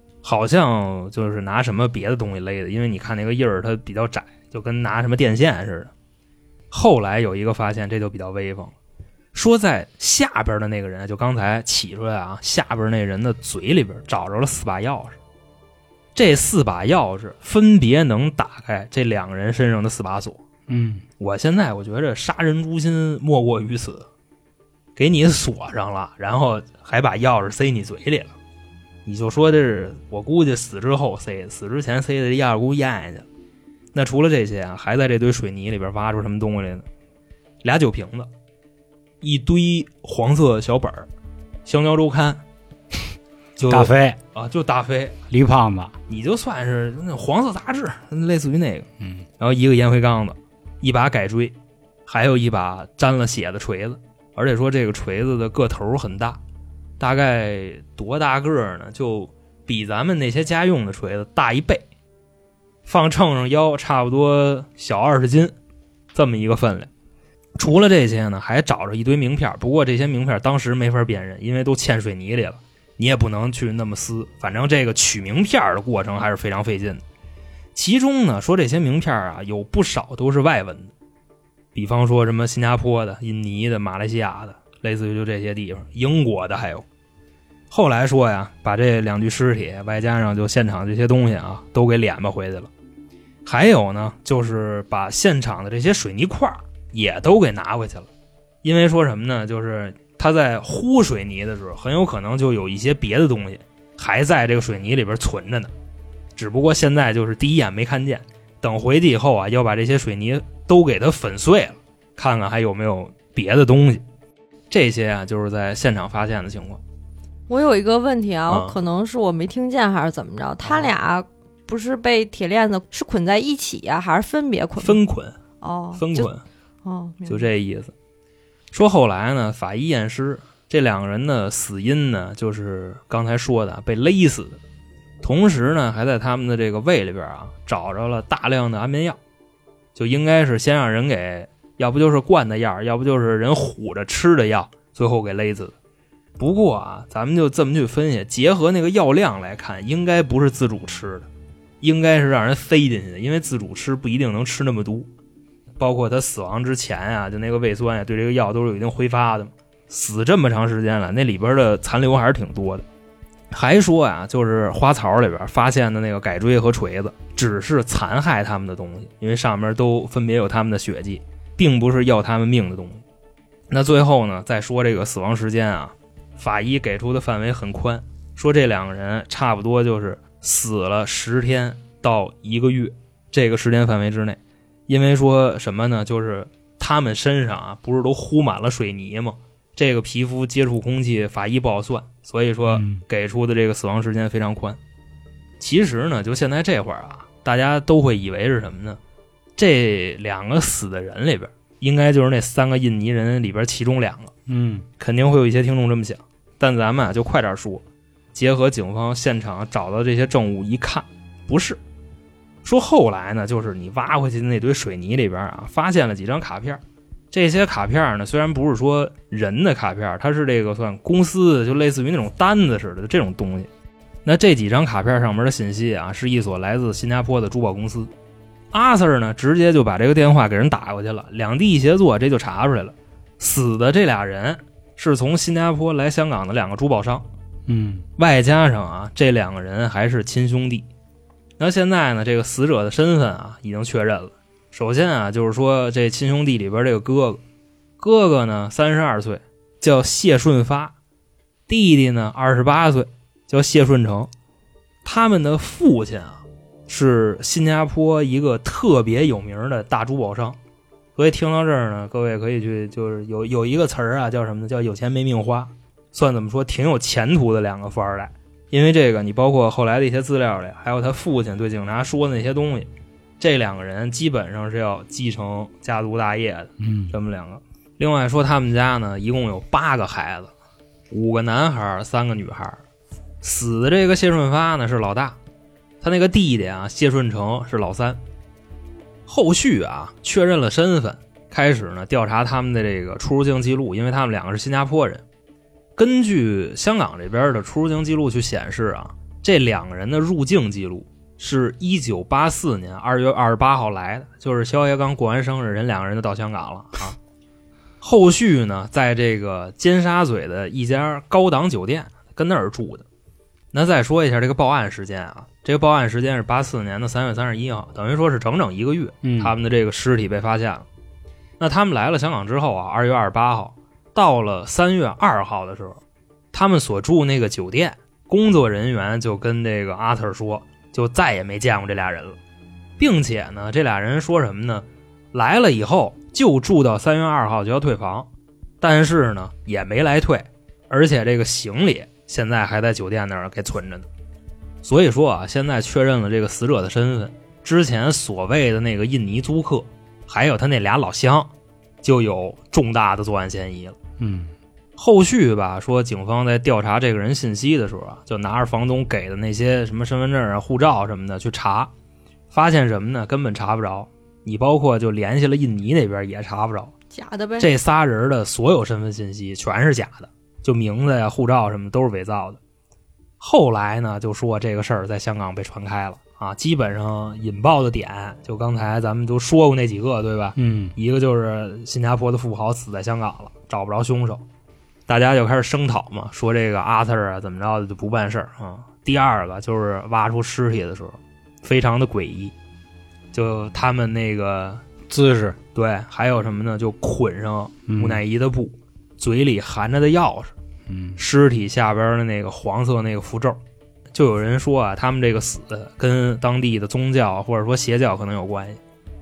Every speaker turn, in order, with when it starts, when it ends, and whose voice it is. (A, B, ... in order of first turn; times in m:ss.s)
0:00.2-0:05.9 A
0:06.7-0:08.7 A
0:09.3-0:15.2 A
0:16.2-0:20.4 A
0:20.7-0:21.0 B
0:21.2-0:24.1 A
0:25.0-0:28.4 A
0:29.1-0:33.3 A
0:33.9-0:36.9 A
0:37.6-0:38.3 A
0:39.2-0:41.1 A
0:41.6-0:42.4 A
0:43.6-0:45.2 A
0:43.7-0:44.2 B
0:45.3-0:45.9 B
0:46.1-0:48.9 A
0:49.4-0:51.5 A
0:52.1-0:56.4 A
0:57.0-1:01.8 A
1:02.9-1:05.5 A
1:06.1-1:06.9 A
1:07.6-1:17.0 A
1:17.8-1:20.9 A
1:21.8-1:26.8 A
1:27.7-1:32.7 A
1:33.4-1:38.1 A
1:38.6-1:45.7 A
1:46.4-1:54.0 A
1:54.7-1:56.8 A
1:57.5-2:05.0 C
1:58.5-1:58.8 A
2:00.6-2:00.9 A
2:04.8-2:05.4 A
2:05.6-2:06.3 C
2:06.0-2:06.4 A
2:06.8-2:07.5 C
2:07.3-2:07.9 A
2:08.7-2:14.6 A
2:15.2-2:19.2 A
2:20.0-2:25.7 A
2:26.4-2:31.3 A
2:31.8-2:35.1 A
2:35.8-2:42.8 A
2:43.5-2:53.0 A
2:53.7-3:14.8 A
3:12.7-3:13.0 B
3:15.6-3:19.0 A
3:19.6-3:24.3 A
3:24.5-3:24.9 B
3:25.0-3:27.8 A
3:28.3-3:31.8 A
3:32.6-3:36.8 A
3:37.3-3:43.7 A
3:44.2-3:48.1 A
3:48.7-3:57.3 A
3:57.7-3:58.0 B
3:58.2-4:00.9 A
4:01.6-4:07.4 A
4:08.0-4:11.0 A
4:11.7-4:14.3 A
4:15.0-4:20.6 A
4:21.2-4:40.5 A
4:36.8-4:37.1 B
4:41.1-4:42.8 A
4:43.4-4:45.4 A
4:46.0-4:48.2 A
4:49.3-4:55.2 A
4:56.0-5:07.2 A
5:08.0-5:13.0 A
5:13.7-5:20.9 A
5:19.2-5:19.5 B
5:21.6-5:26.0 A
5:26.5-5:32.4 A
5:33.0-5:38.3 A
5:38.8-5:44.1 A
5:44.8-5:51.5 A
5:52.0-5:54.0 A
5:54.2-5:54.5 B
5:55.0-6:01.9 A
6:02.5-6:06.9 A
6:07.1-6:07.7 C
6:07.6-6:12.6 A
6:13.4-6:24.4 A
6:20.6-6:20.9 B
6:25.1-6:32.5 A
6:33.3-6:34.8 A
6:35.1-6:35.6 B
6:35.8-6:40.5 A
6:37.9-6:38.2 B
6:40.9-6:41.2 B
6:41.2-6:43.6 A
6:44.1-6:48.8 A